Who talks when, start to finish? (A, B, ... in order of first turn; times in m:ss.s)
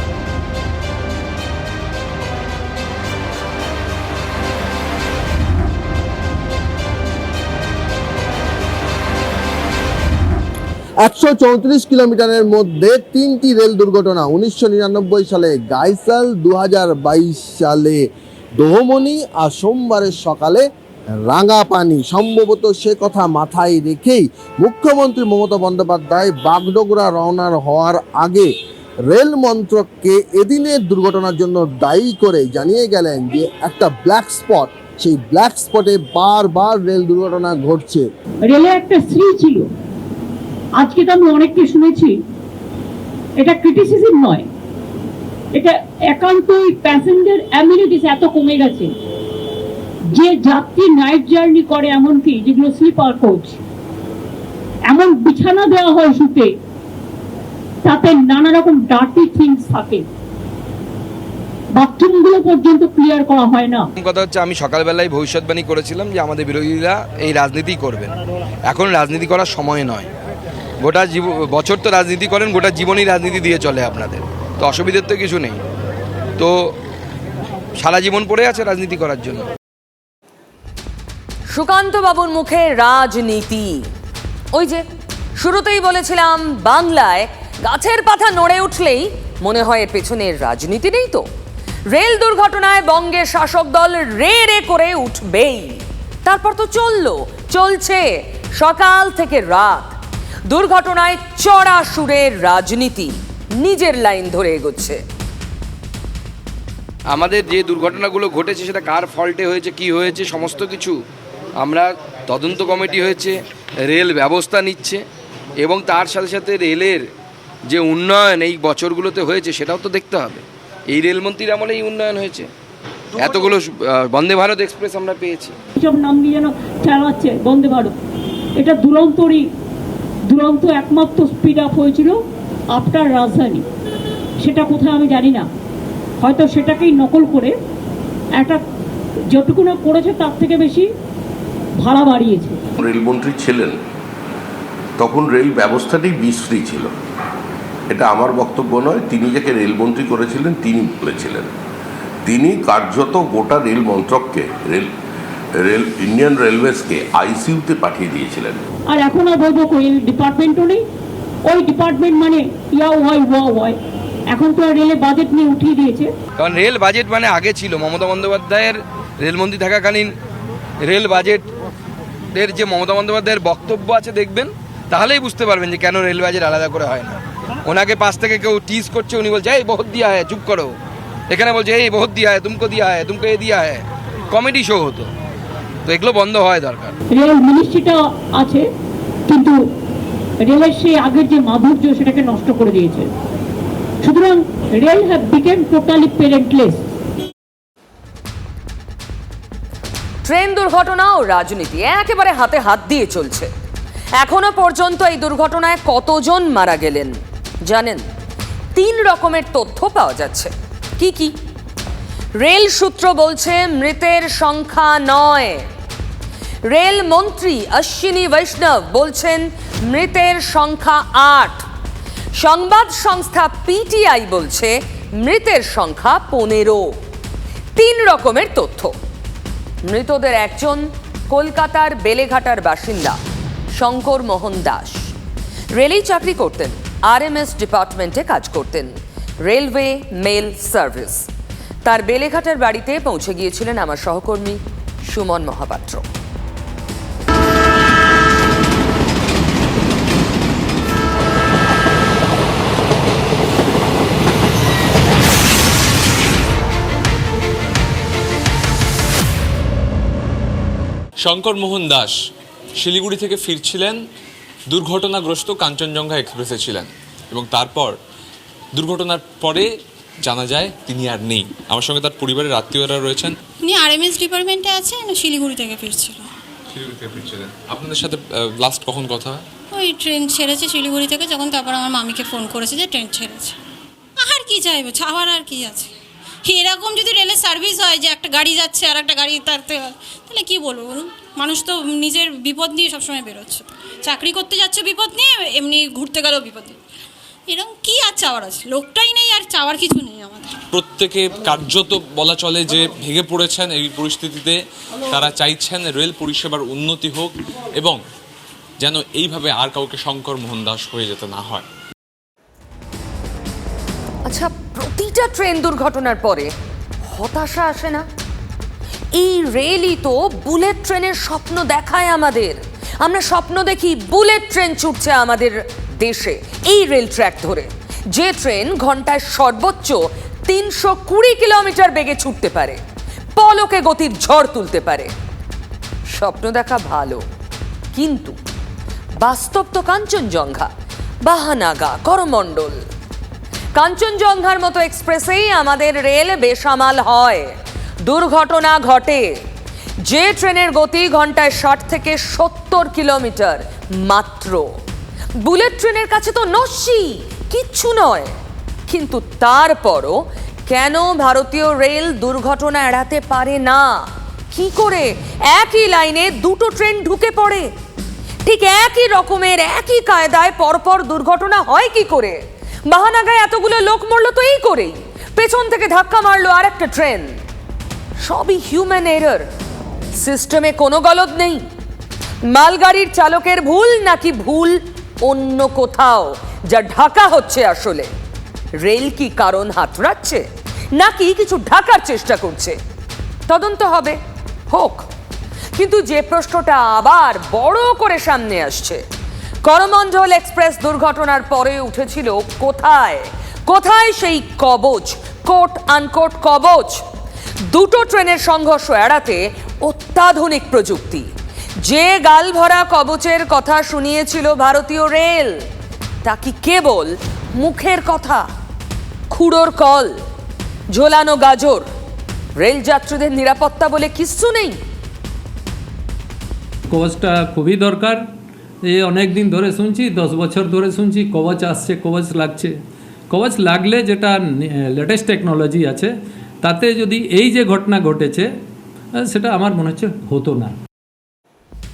0:11.0-0:18.0 A
0:18.6-0:20.6 A
0:21.3-0:28.5 A
0:29.1-0:38.1 A
0:38.5-0:39.7 B
0:40.8-0:42.2 B
0:43.4-0:44.5 B
0:45.5-0:48.9 B
0:50.1-0:53.6 B
0:54.9-0:56.5 B
0:57.9-1:00.0 B
1:01.8-1:03.9 B
1:04.0-1:08.1 C
1:08.7-1:10.1 C
1:10.8-1:15.6 C
1:16.4-1:16.7 C
1:17.8-1:19.5 C
1:21.5-1:23.9 D
1:24.5-1:24.8 D
1:25.4-1:31.3 D
1:31.9-1:45.0 D
1:47.1-1:51.0 C
1:51.6-1:55.0 C
1:55.6-1:57.0 C
1:57.6-2:02.5 C
2:03.2-2:05.6 C
2:05.8-2:07.9 B
2:08.6-2:09.5 B
2:10.3-2:12.2 B
2:12.8-2:13.6 B
2:14.4-2:15.5 B
2:16.2-2:17.5 B
2:19.3-2:20.9 B
2:21.8-2:22.6 B
2:22.8-2:23.8 E
2:25.0-2:26.9 E
2:27.9-2:31.5 E
2:32.2-2:34.9 E
2:35.6-2:38.6 E
2:38.9-2:40.8 B
2:41.5-2:43.8 B
2:44.3-2:46.1 B
2:46.4-2:50.1 C
2:50.8-2:51.5 C
2:52.3-3:00.8 C
3:01.3-3:05.1 C
3:05.9-3:07.0 C
3:07.1-3:08.7 B
3:09.3-3:09.6 B
3:10.4-3:13.1 B
3:14.0-3:16.8 B
3:20.2-3:23.5 D
3:24.2-3:28.0 D
3:28.8-3:31.3 D
3:32.4-3:35.6 D
3:36.7-3:41.6 D
3:42.4-3:47.0 D
3:47.8-3:48.9 D
3:49.9-3:53.2 D
3:53.8-3:55.1 D
3:55.7-4:01.3 D
4:01.8-4:06.0 D
4:21.2-4:22.1 F
4:22.8-4:24.0 F
4:24.7-4:28.0 F
4:28.7-4:29.7 F
4:30.2-4:33.4 F
4:33.6-4:36.3 G
4:36.7-4:39.4 F
4:39.7-4:43.6 G
4:44.2-4:45.9 G
4:46.4-4:56.8 G
4:57.5-5:00.6 G
5:00.7-5:04.6 F
5:05.1-5:08.0 F
5:08.8-5:11.6 F
5:14.2-5:16.5 D
5:17.0-5:18.0 D
5:19.1-5:32.8 D
5:33.4-5:35.1 D
5:36.1-5:37.2 D
5:37.9-5:38.4 D
5:39.2-5:40.7 D
5:41.2-5:42.8 D
5:43.8-5:47.5 D
5:48.0-5:49.3 D
5:50.0-5:54.7 D
5:55.4-5:58.3 D
5:58.9-6:07.7 D
6:08.5-6:17.4 D
6:18.2-6:19.5 D
6:20.2-6:21.6 D
6:22.5-6:28.1 D
6:28.8-6:30.4 D
6:31.0-6:32.8 D
6:33.5-6:34.2 D
6:34.7-6:35.1 D
6:35.8-6:39.0 D
6:39.6-6:47.0 D
6:47.6-6:51.3 D
6:51.8-6:55.6 D
6:56.2-6:58.5 D
6:59.3-7:00.2 D
7:00.9-7:01.9 D
7:02.6-7:04.8 D
7:06.9-7:08.2 H
7:08.8-7:12.8 H
7:13.3-7:16.1 H
7:16.6-7:18.5 H
7:19.2-7:20.8 H